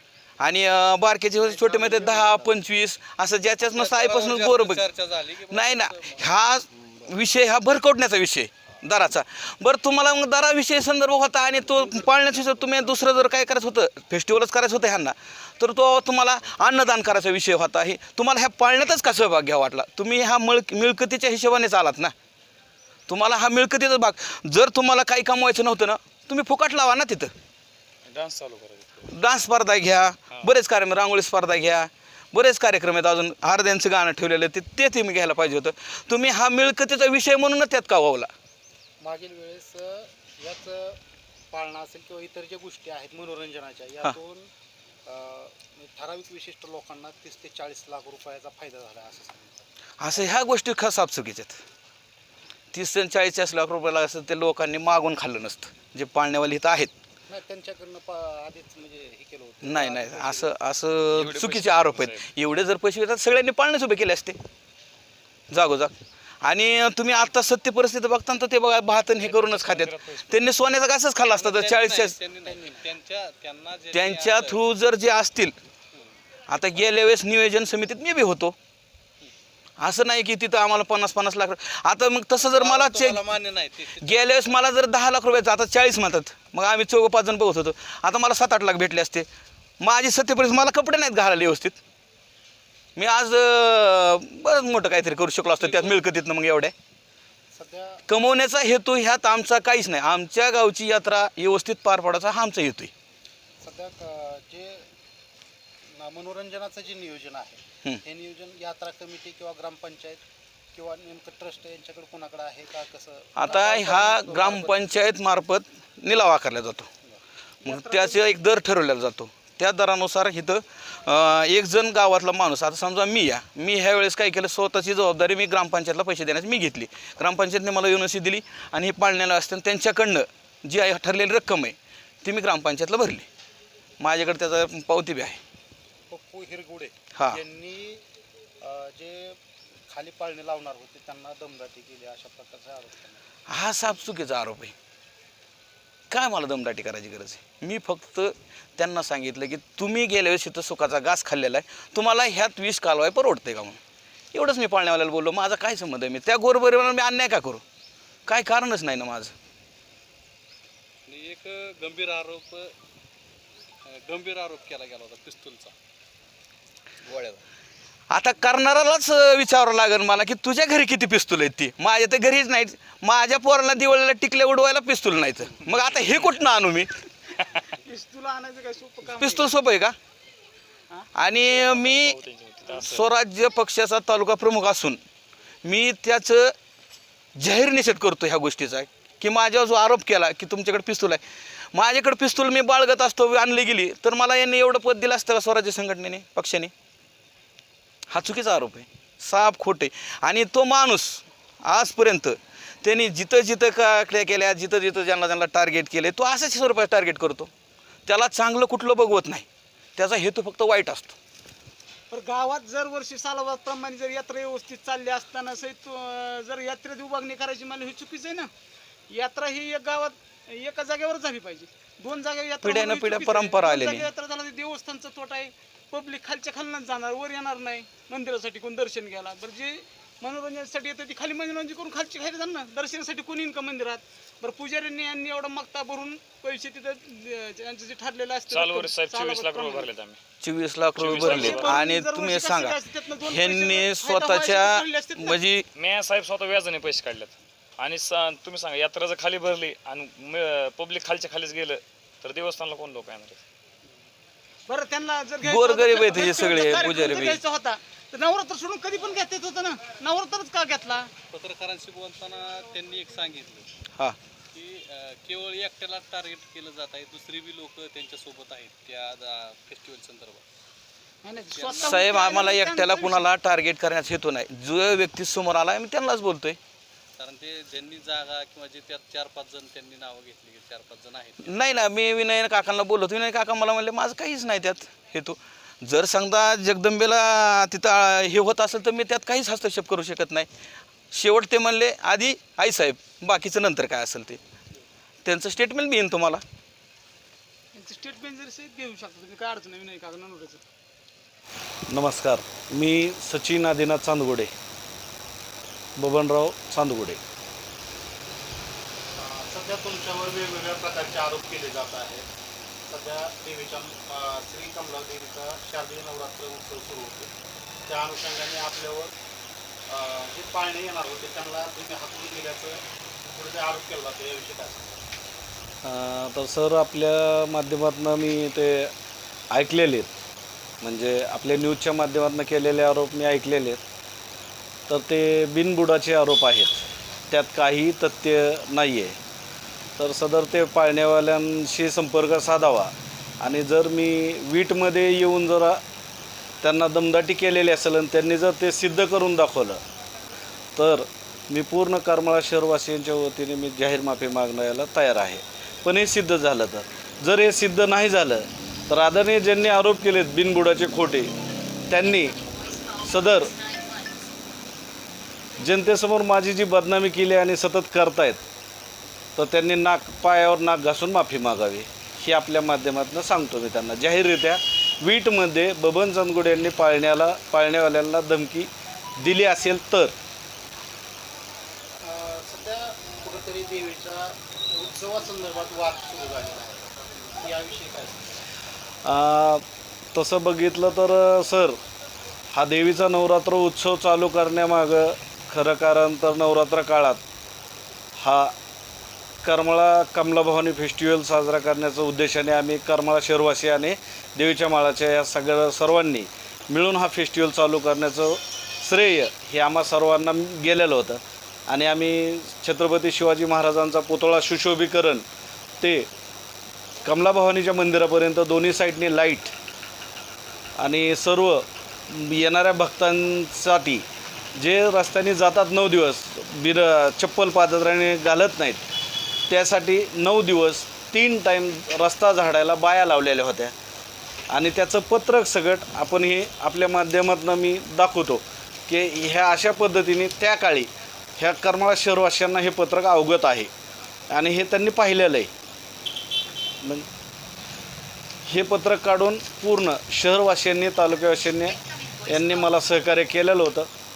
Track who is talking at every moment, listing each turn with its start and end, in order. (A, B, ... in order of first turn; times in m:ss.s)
0:00.4-0:04.8 A
0:01.5-0:02.6 B
0:03.6-0:06.4 B
0:05.5-0:22.1 A
0:23.1-0:27.3 A
0:28.1-0:29.1 C
0:29.1-0:38.3 A
0:39.0-0:41.0 D
0:41.5-0:44.5 D
0:45.1-0:50.5 D
0:50.0-0:51.6 A
0:52.7-0:56.9 A
0:57.3-1:00.5 D
0:59.6-1:04.4 A
1:01.1-1:02.3 C
1:05.5-1:12.2 A
1:09.1-1:10.6 C
1:11.2-1:14.6 B
1:12.5-1:12.8 D
1:13.9-1:15.6 A
1:16.5-1:18.6 A
1:19.8-1:23.2 A
1:22.4-1:24.7 B
1:24.0-1:29.3 A
1:29.8-1:31.8 A
1:33.0-1:36.7 A
1:37.5-1:38.1 D
1:38.1-1:42.9 A
1:43.6-1:44.9 D
1:45.9-1:50.2 D
1:50.7-1:55.1 D
1:53.4-1:56.9 A
1:57.6-2:13.2 A
1:57.6-1:58.2 E
2:14.0-2:15.4 A
2:16.1-2:18.0 D
2:18.6-2:23.2 D
2:23.5-2:24.7 A
2:26.1-2:33.8 A
2:34.3-2:37.6 A
2:38.3-2:39.3 A
2:41.1-2:42.8 B
2:43.9-2:45.7 B
2:47.1-2:47.4 B
2:48.1-2:56.9 A
2:57.8-2:59.5 E
2:59.0-3:00.0 A
3:01.2-3:05.0 A
3:01.3-3:03.0 C
3:05.6-3:06.5 A
3:07.4-3:11.2 A
3:11.7-3:16.7 A
3:18.1-3:27.5 A
3:28.1-3:31.2 A
3:32.1-3:38.5 E
3:39.1-3:59.9 E
3:42.6-3:44.1 A
3:58.5-4:00.2 C
4:00.4-4:05.7 A
4:01.0-4:01.9 C
4:01.2-4:01.5 B
4:01.5-4:05.4 E
4:05.8-4:13.4 C
4:14.7-4:21.1 E
4:15.4-4:17.4 A
4:21.3-4:23.7 B
4:24.5-4:30.4 B
4:31.2-4:33.2 E
4:31.5-4:32.1 B
4:31.8-4:36.6 A
4:37.2-4:41.6 B
4:41.4-4:50.5 A
4:51.1-4:54.4 A
4:55.2-4:56.4 A
4:57.8-5:00.6 E
5:01.9-5:04.5 F
5:06.0-5:07.2 F
5:09.2-5:12.3 D
5:12.9-5:17.3 D
5:17.9-5:19.1 D
5:19.9-5:25.0 D
5:25.8-5:28.9 F
5:29.5-5:30.1 F
5:30.8-5:33.8 F
5:34.9-5:39.2 F
5:40.0-5:45.8 F
5:46.6-5:49.8 F
5:50.8-6:01.3 F
6:01.9-6:02.5 F
6:03.0-6:03.6 F
6:05.6-6:08.4 F
6:09.4-6:20.1 F
6:22.0-6:28.4 D
6:29.0-6:29.6 F
6:30.2-6:31.8 F
6:32.5-6:37.2 F
6:38.2-6:38.6 F
6:39.4-6:55.2 F
6:55.8-6:56.1 F
6:57.0-6:59.5 F
7:00.8-7:04.0 F
7:04.6-7:08.8 F
7:09.5-7:13.7 F
7:14.5-7:23.7 F
7:24.3-7:25.5 F
7:28.5-7:33.9 F